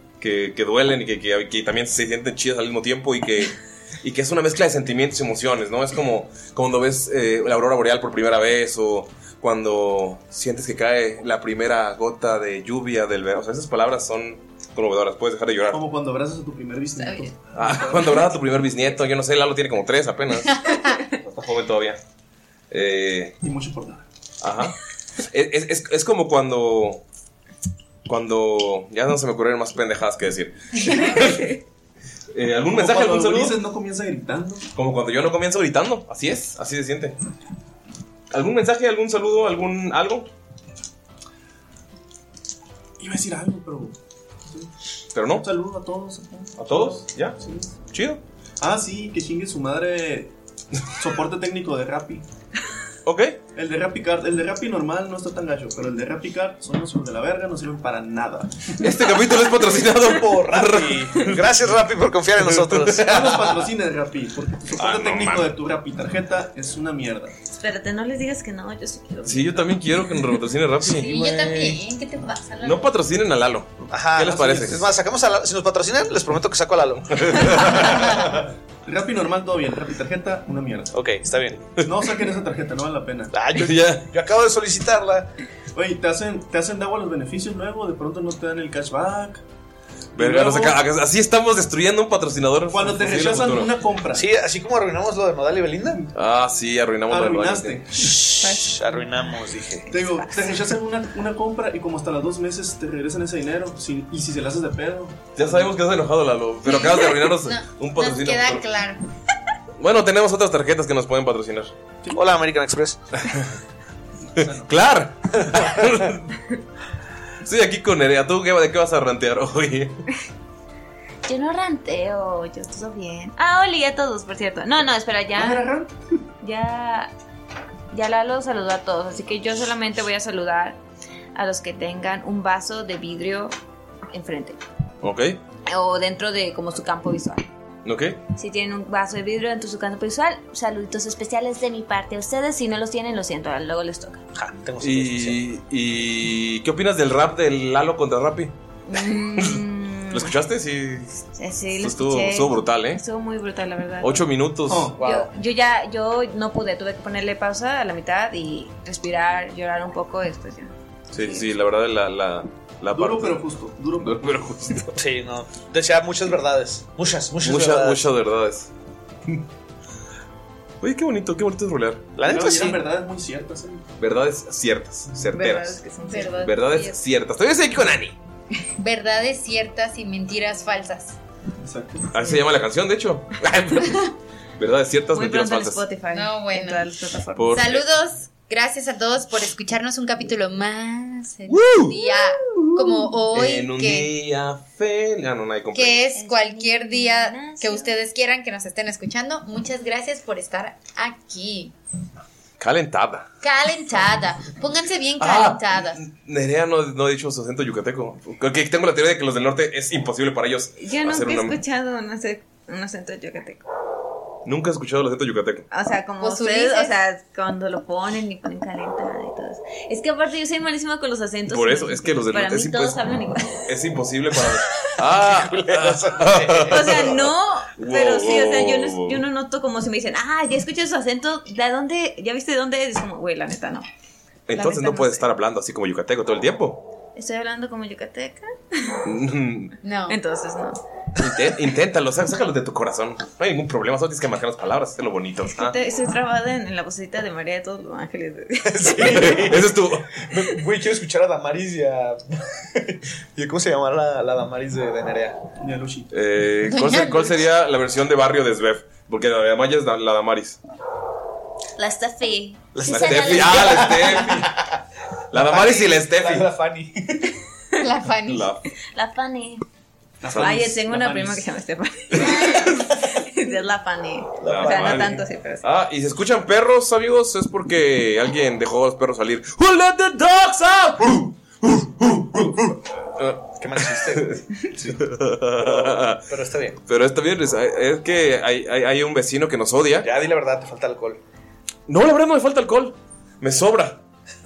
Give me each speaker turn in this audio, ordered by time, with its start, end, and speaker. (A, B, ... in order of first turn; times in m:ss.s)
0:00.2-0:15.8 A
0:15.7-0:18.2 B
0:17.0-0:17.3 C
0:17.5-0:22.0 A
0:22.7-0:23.4 A
0:23.4-0:24.0 B
0:24.4-0:27.0 A
0:28.0-0:31.5 A
0:32.3-0:33.6 A
0:32.7-0:34.6 B
0:34.7-0:37.2 A
0:38.3-0:40.3 A
0:43.0-0:43.9 B
0:45.1-0:45.5 A
0:45.3-0:47.7 B
0:46.6-0:47.4 A
0:47.9-0:48.2 A
0:48.6-0:50.3 B
0:51.0-0:52.2 B
0:53.0-0:53.4 A
0:53.5-0:58.7 B
0:58.8-1:01.5 A
0:59.8-1:03.7 D
1:02.4-1:03.1 A
1:03.0-1:07.3 B
1:04.8-1:05.5 A
1:07.5-1:10.3 C
1:09.2-1:11.8 A
1:10.8-1:12.9 E
1:12.6-1:14.9 A
1:13.9-1:18.4 D
1:17.2-1:18.1 A
1:18.8-1:20.9 B
1:20.9-1:21.6 D
1:21.8-1:23.3 B
1:23.3-1:25.3 D
1:23.5-1:24.0 A
1:25.7-1:29.4 B
1:30.1-1:30.8 B
1:30.2-1:33.7 A
1:32.7-1:34.2 B
1:34.1-1:36.0 D
1:36.1-1:37.8 A
1:37.1-1:38.1 B
1:38.0-1:40.0 D
1:38.4-1:38.7 C
1:39.9-1:45.7 B
1:45.3-1:48.7 A
1:46.6-1:49.0 E
1:49.8-1:51.7 A
1:52.1-1:53.0 D
1:53.3-1:53.5 A
1:54.3-1:54.7 B
1:54.4-1:56.3 A
1:57.4-2:00.0 A
2:01.2-2:05.6 C
2:05.3-2:05.9 B
2:06.4-2:07.1 C
2:07.9-2:10.8 C
2:11.3-2:13.5 C
2:14.1-2:14.6 C
2:15.0-2:15.4 A
2:15.7-2:17.4 C
2:17.8-2:18.2 A
2:18.4-2:24.2 C
2:24.3-2:25.4 D
2:24.8-2:28.5 A
2:28.9-2:30.3 C
2:29.4-2:33.0 A
2:31.4-2:34.2 C
2:34.0-2:34.9 A
2:34.7-2:35.0 B
2:35.0-2:35.3 D
2:35.0-2:41.4 C
2:41.1-2:43.4 A
2:42.9-2:44.2 B
2:44.0-2:45.0 A
2:44.9-2:48.0 D
2:47.4-2:48.7 A
2:50.8-2:52.0 A
2:52.2-2:52.8 D
2:52.2-2:53.8 B
2:54.0-2:55.8 A
2:55.3-2:56.9 C
2:56.0-2:56.5 E
2:56.4-2:58.2 A
2:58.8-3:01.2 E
3:01.6-3:02.2 B
3:02.1-3:05.8 A
3:05.1-3:07.5 C
3:06.1-3:06.8 E
3:07.4-3:07.8 A
3:07.4-3:14.1 E
3:11.5-3:16.1 A
3:15.7-3:21.7 E
3:16.1-3:18.0 C
3:22.6-3:23.3 A
3:23.4-3:26.0 E
3:25.2-3:31.6 A
3:30.8-3:33.6 C
3:34.4-3:35.7 A
3:35.7-3:43.6 C
3:36.2-3:37.1 E
3:41.5-3:43.0 A
3:43.7-3:49.2 A
3:45.1-3:47.3 D
3:46.7-3:53.8 C
3:54.5-3:56.8 A
3:54.5-3:55.3 C
3:57.1-3:59.0 C
3:59.0-3:59.7 A
3:59.8-4:00.2 E
4:00.1-4:00.8 C
4:01.2-4:05.8 A
4:05.5-4:09.4 C
4:08.6-4:12.2 D
4:09.0-4:10.1 A
4:12.7-4:15.4 D
4:15.6-4:16.1 B
4:16.1-4:20.6 A
4:16.7-4:17.3 C
4:21.8-4:24.3 C
4:22.7-4:24.8 D
4:22.8-4:24.5 A
4:25.3-4:26.5 A
4:25.3-4:27.2 D
4:27.8-4:28.5 E
4:28.2-4:28.6 A
4:28.9-4:29.6 C
4:30.2-4:31.4 B
4:30.3-4:30.6 A
4:30.4-4:35.6 C
4:34.4-4:35.2 D
4:34.4-4:44.3 A
4:43.6-4:46.8 D
4:45.0-4:46.2 A
4:46.9-4:50.1 A
4:50.0-4:51.2 D
4:51.9-4:54.0 A